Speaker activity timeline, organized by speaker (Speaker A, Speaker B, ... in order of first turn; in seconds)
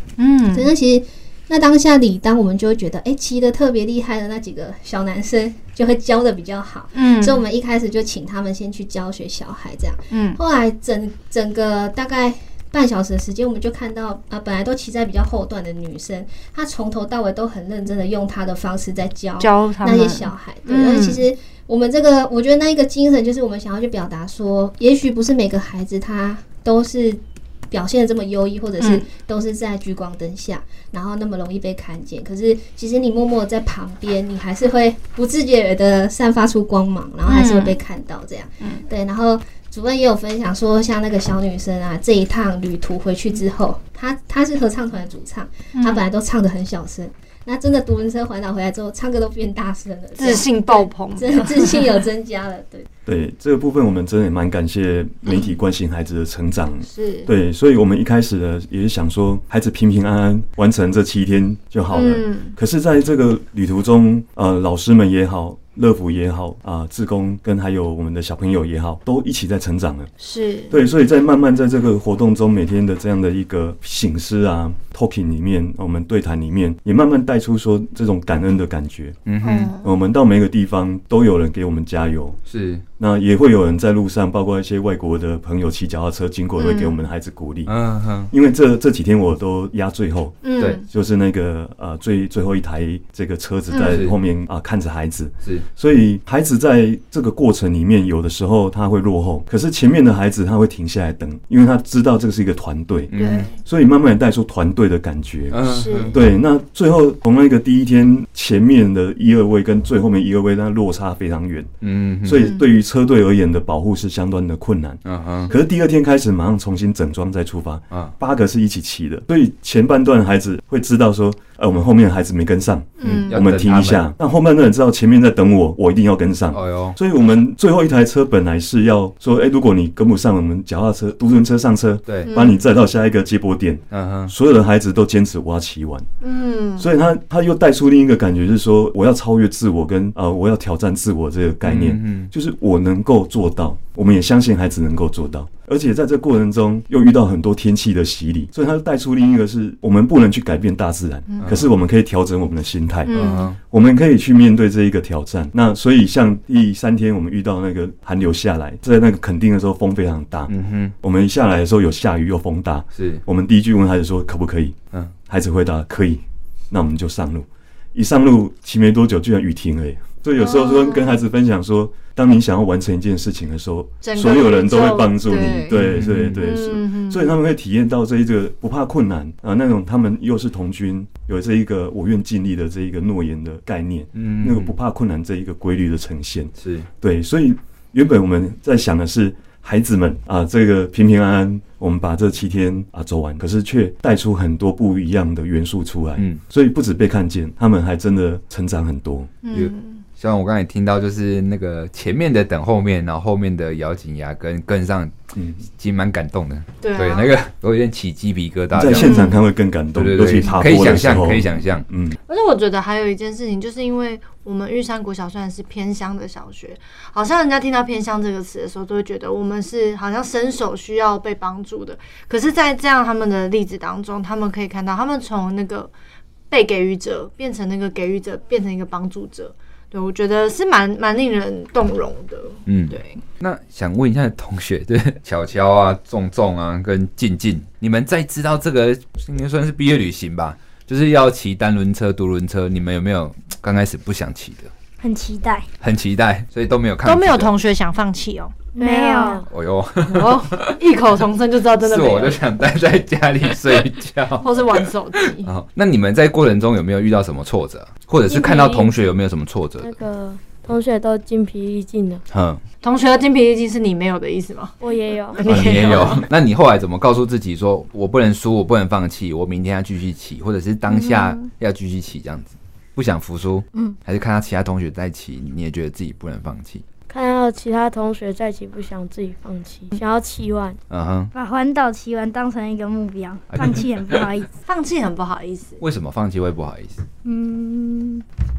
Speaker A: 0.2-0.7, 6.9-7.4, 10.1-10.4, 19.4-21.2, 28.8-29.1, 37.3-37.8, 45.7-46.0, 50.2-52.0, 56.8-57.3, 61.9-62.5, 70.2-70.8, 79.4-79.9, 86.6-87.0, 90.4-90.9, 93.7-94.0, 103.1-103.6, 105.7-106.2, 112.4-112.7, 123.0-123.4, 132.3-132.6, 136.2-136.9, 153.1-153.5, 170.4-171.2, 174.0-177.4, 199.4-200.0, 206.8-207.3, 209.0-209.4, 212.3-225.9, 226.5-233.2, 247.0-249.4, 250.1-252.4, 254.4-255.5, 258.3-258.9, 262.8-264.8, 265.3-266.3, 270.9-271.4, 284.6-285.8
Speaker B: 0.5-52.9
Speaker C: 53.1-70.1, 70.7-79.2, 79.8-82.4, 83.0-87.7, 88.3-111.7, 112.2-136.1, 136.8-164.8, 165.3-199.3, 205.3-205.6, 208.7-212.2
Speaker D: 79.3-79.7, 82.5-82.8, 87.7-88.3, 93.8-94.1, 103.1-103.5, 105.5-106.2, 111.8-112.5, 115.0-115.5, 123.0-124.1, 126.5-127.0, 132.1-132.3, 133.9-134.3, 141.6-142.3, 153.2-153.6, 160.5-160.9, 162.9-163.2, 175.7-176.4, 184.2-184.7, 186.6-186.9, 196.2-196.4, 199.5-205.2, 205.7-209.2, 209.9-211.9, 232.7-244.7, 245.8-247.5, 249.5-250.8, 251.8-259.9, 262.3-262.6, 265.5-276.8, 280.9-281.3, 283.5-284.3, 285.8-287.0
Speaker E: 245.0-245.7, 248.8-249.5, 281.3-284.5, 287.2-288.2
Speaker F: 249.2-249.4, 259.8-262.2, 264.8-265.4, 277.1-280.8